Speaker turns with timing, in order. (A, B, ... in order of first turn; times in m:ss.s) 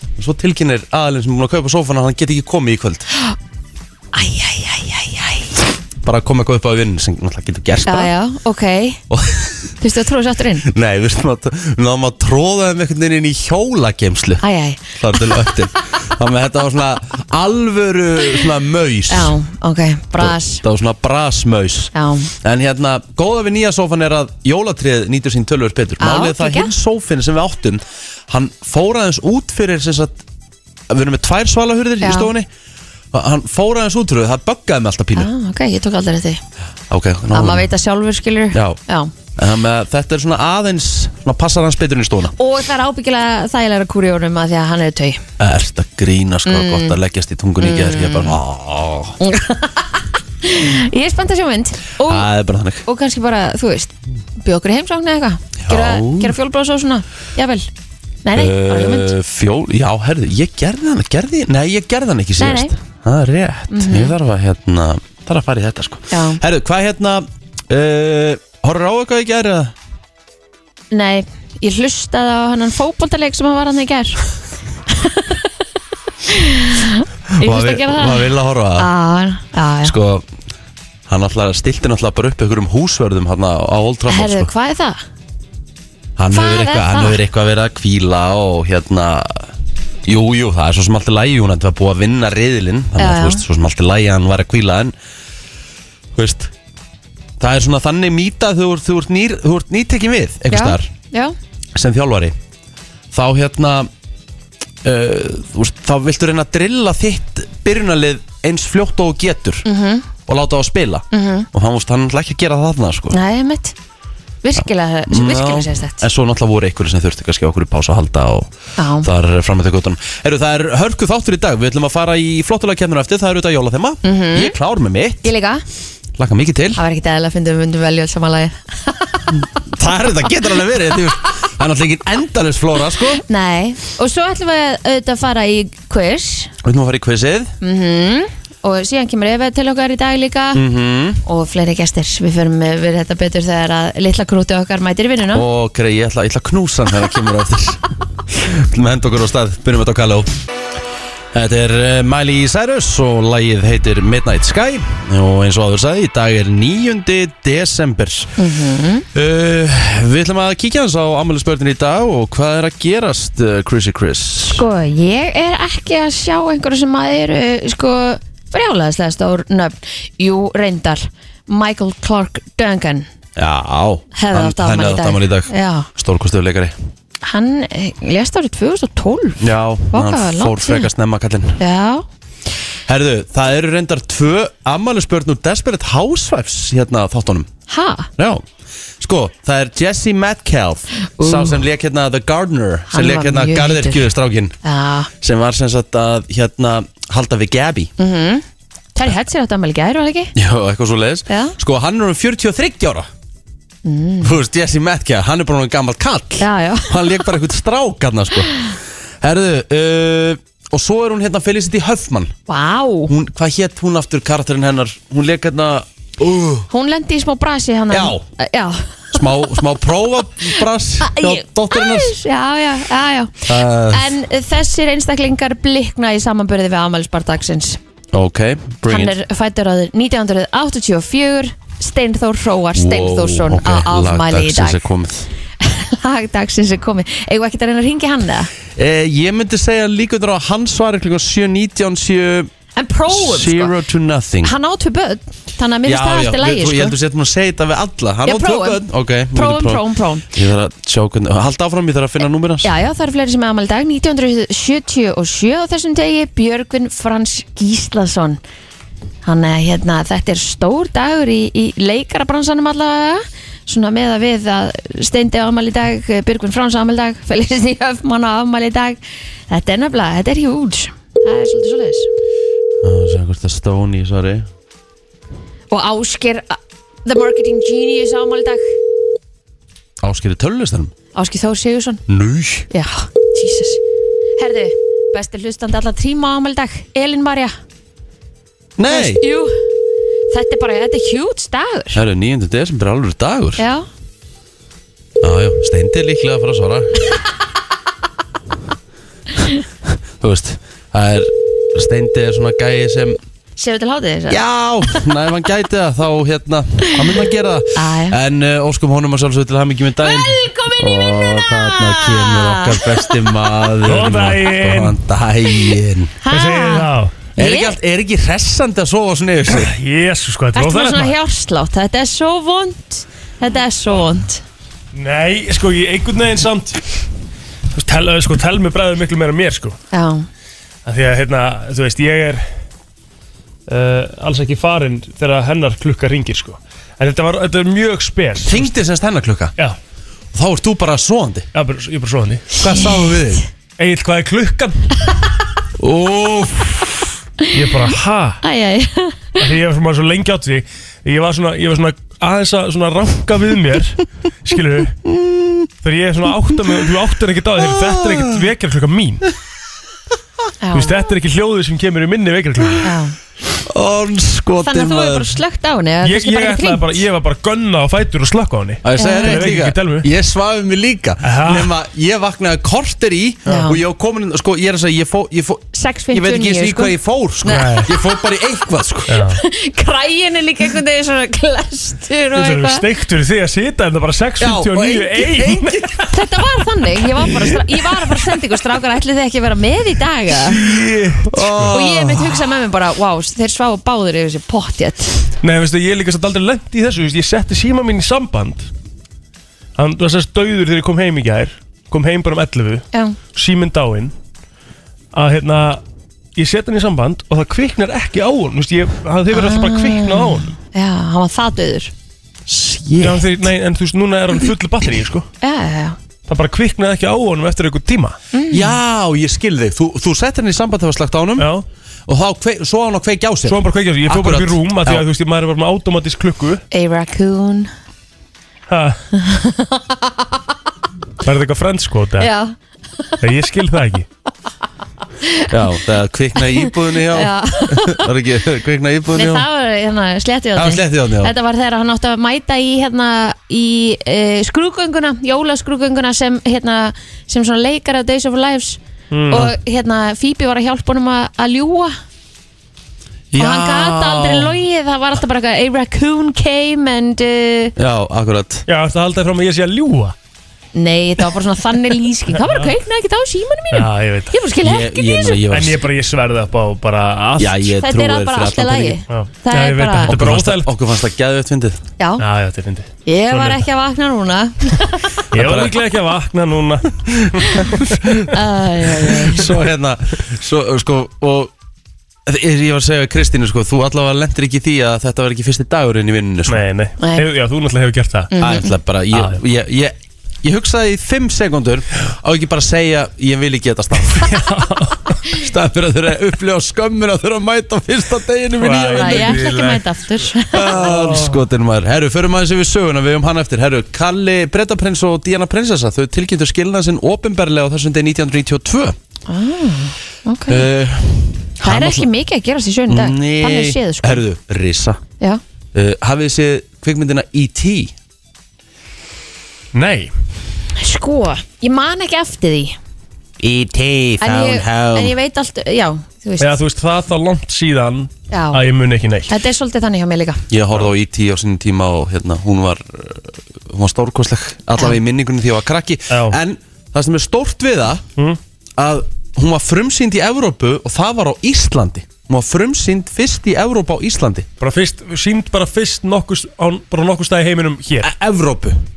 0:00.2-0:03.1 A
0:04.1-0:05.5 B
0:06.0-0:08.1 A
0:07.9-0:09.0 B
0:09.1-0:09.7 A
0:09.8-0:10.7 B
0:10.6-0:14.4 A
0:14.4-0:15.5 B
0:15.0-0:19.3 A
0:19.1-0:20.6 B
0:20.2-0:30.2 A
0:21.9-0:22.3 B
0:26.0-0:26.7 B
0:30.9-0:32.5 A
0:32.0-0:32.3 B
0:33.1-0:35.3 A
0:35.1-0:36.4 B
0:36.9-0:37.7 A
0:37.3-0:39.1 B
0:38.5-0:38.8 A
0:39.4-0:42.3 A
0:42.4-0:45.2 B
0:45.4-0:49.2 A
0:46.4-0:47.0 B
0:47.6-0:48.4 B
0:49.2-0:52.3 B
0:52.0-0:52.8 A
0:52.8-0:57.7 B
0:55.6-0:56.4 A
0:58.2-0:59.1 B
0:58.3-1:09.7 A
1:02.4-1:02.7 B
1:03.7-1:04.1 B
1:06.1-1:06.4 B
1:10.9-1:14.2 B
1:14.9-1:15.5 B
1:16.2-1:19.9 B
1:17.3-1:18.9 A
1:19.8-1:20.2 A
1:21.1-1:24.5 A
1:24.1-1:25.0 B
1:26.2-1:29.5 A
1:26.3-1:27.2 B
1:30.0-1:34.9 A
1:33.0-1:33.4 B
1:36.1-1:36.5 A
1:37.4-1:40.9 A
1:40.5-1:41.3 B
1:41.7-1:42.4 A
1:43.1-1:43.9 A
1:44.8-1:49.6 A
1:49.6-1:50.0 B
1:50.3-1:53.2 A
1:51.1-1:51.5 B
1:53.1-1:53.7 B
1:54.4-1:56.0 B
1:54.6-2:05.2 A
1:58.8-1:59.1 B
2:04.0-2:04.5 B
2:05.2-2:05.6 B
2:06.2-2:06.8 A
2:06.7-2:09.4 B
2:09.7-2:13.2 A
2:13.2-2:16.5 B
2:16.6-2:17.5 A
2:17.6-2:20.6 B
2:20.5-2:21.2 A
2:21.2-2:25.4 B
2:25.3-2:30.3 A
2:31.3-2:38.4 A
2:38.4-2:39.0 B
2:39.1-2:44.6 A
2:44.5-2:53.1 B
2:53.4-2:56.8 A
2:54.1-2:55.9 B
2:57.2-3:00.9 B
2:59.4-3:01.6 A
3:01.6-3:02.0 B
3:02.9-3:07.5 A
3:07.7-3:08.1 B
3:08.2-3:08.4 A
3:09.0-3:14.6 A
3:11.2-3:11.6 B
3:12.9-3:14.1 B
3:14.6-3:15.1 B
3:15.2-3:17.9 A
3:18.0-3:18.4 B
3:18.9-3:20.3 B
3:20.4-3:23.1 A
3:21.3-3:21.6 B
3:23.8-3:24.3 B
3:24.2-3:28.7 A
3:26.4-3:27.2 B
3:29.2-3:32.3 A
3:32.5-3:33.1 B
3:33.1-3:36.7 A
3:36.7-3:39.6 B
3:37.9-3:38.2 A
3:39.1-3:42.1 A
3:41.0-3:47.8 B
3:43.4-3:44.1 A
3:48.1-3:49.1 A
3:48.9-3:54.8 B
3:52.8-3:55.3 A
3:55.6-3:58.5 B
3:58.8-4:02.5 A
4:02.8-4:03.7 B
4:03.1-4:04.5 A
4:04.4-4:06.9 B
4:05.9-4:12.7 A
4:08.2-4:08.8 B
4:09.3-4:10.3 B
4:12.6-4:18.4 B
4:19.2-4:32.1 B
4:32.8-4:34.5 A
4:35.7-4:38.7 B
4:40.0-4:40.9 A
4:41.1-4:42.0 B
4:42.1-4:42.7 A
4:42.7-4:43.8 B
4:44.4-4:47.5 B
4:48.8-4:49.2 A
4:48.9-4:49.5 B
4:50.3-4:52.0 B
4:51.9-4:53.6 A
4:53.6-4:53.9 B
4:55.2-4:56.9 A
5:00.2-5:03.2 A
5:03.6-5:05.0 B
5:04.3-5:16.1 A
5:07.8-5:08.2 B
5:10.0-5:13.3 B
5:13.8-5:15.0 C
5:16.2-5:17.8 B
5:16.3-5:17.2 C
5:17.4-5:19.7 A
5:19.5-5:21.2 C
5:20.5-5:24.4 B
5:24.9-5:26.8 C
5:27.7-5:29.8 C
5:29.9-5:30.3 B
5:30.9-5:32.4 C
5:33.7-5:38.7 C
5:38.4-5:39.5 A
5:40.3-5:41.5 A
5:41.5-5:42.5 C
5:42.6-5:43.4 A
5:43.8-5:44.8 C
5:45.8-5:47.1 A
5:47.5-5:48.4 C
5:48.4-5:49.4 B
5:49.4-5:55.0 C
5:55.2-5:55.5 A
5:55.8-5:59.3 C
5:57.8-5:58.2 A
6:00.6-6:00.9 B
6:00.7-6:02.9 C
6:02.8-6:03.1 B
6:03.6-6:05.3 A
6:04.6-6:06.9 B
6:06.0-6:10.1 C
6:08.8-6:19.2 A
6:09.0-6:09.4 B
6:11.2-6:11.7 C
6:13.5-6:13.8 B
6:15.7-6:17.9 B
6:17.5-6:17.9 C
6:19.1-6:19.4 C
6:19.3-6:22.8 B
6:22.4-6:26.1 C
6:24.4-6:26.1 A
6:26.1-6:30.6 B
6:30.5-6:31.8 C
6:31.3-6:32.4 A
6:31.7-6:35.2 B
6:35.4-6:38.7 C
6:39.8-6:44.1 C
6:42.9-6:43.2 B
6:45.1-6:45.8 C
6:46.4-6:50.5 C
6:49.3-6:51.9 B
6:52.5-6:53.3 A
6:53.0-6:55.3 C
6:55.4-6:56.0 B
6:56.3-6:58.2 C
6:58.3-6:58.8 B
6:58.5-7:01.5 A
7:01.4-7:01.6 C
7:02.1-7:05.0 A
7:03.5-7:06.6 C
7:06.7-7:07.7 B
7:08.7-7:09.0 C
7:09.2-7:10.2 B
7:11.2-7:12.3 C
7:12.2-7:12.5 B
7:13.2-7:14.0 C
7:15.5-7:19.4 A
7:16.4-7:18.1 B
7:19.1-7:32.0 B
7:20.5-7:21.3 A
7:29.1-7:29.5 C
7:33.3-7:34.6 A
7:33.4-7:37.7 B
7:37.8-7:38.6 A
7:38.7-7:40.1 C
7:40.8-7:45.4 B
7:42.4-7:42.7 C
7:43.7-7:44.3 C
7:44.6-7:45.8 A
7:45.5-7:47.7 C
7:47.4-7:49.0 A
7:47.8-7:50.1 B
7:49.1-7:50.7 C
7:50.1-7:51.8 A
7:52.2-7:53.6 C
7:53.0-7:55.1 B
7:55.3-7:57.7 C
7:55.3-7:55.8 A
7:57.8-7:58.1 A
7:58.3-7:59.5 B
7:59.1-8:01.5 A
8:02.2-8:06.6 A
8:06.5-8:08.3 C
8:08.3-8:08.7 B
8:08.4-8:14.4 A
8:09.1-8:09.4 C
8:14.1-8:15.2 C
8:15.3-8:19.5 A
8:18.6-8:19.8 C
8:19.0-8:20.9 B
8:20.5-8:29.0 A
8:20.5-8:21.4 C
8:29.3-8:30.7 B
8:30.5-8:32.1 A
8:31.6-8:34.2 B
8:32.9-8:35.0 A
8:35.7-8:37.9 A
8:39.8-8:40.1 C
8:40.8-8:42.8 B
8:43.4-8:45.1 A
8:44.2-8:46.6 B
8:46.4-8:49.3 C
8:48.3-8:48.6 B
8:49.3-8:50.4 B
8:50.5-8:58.0 A
8:56.1-8:56.4 C
8:58.8-9:04.5 A
9:04.6-9:08.1 C
9:08.0-9:08.8 A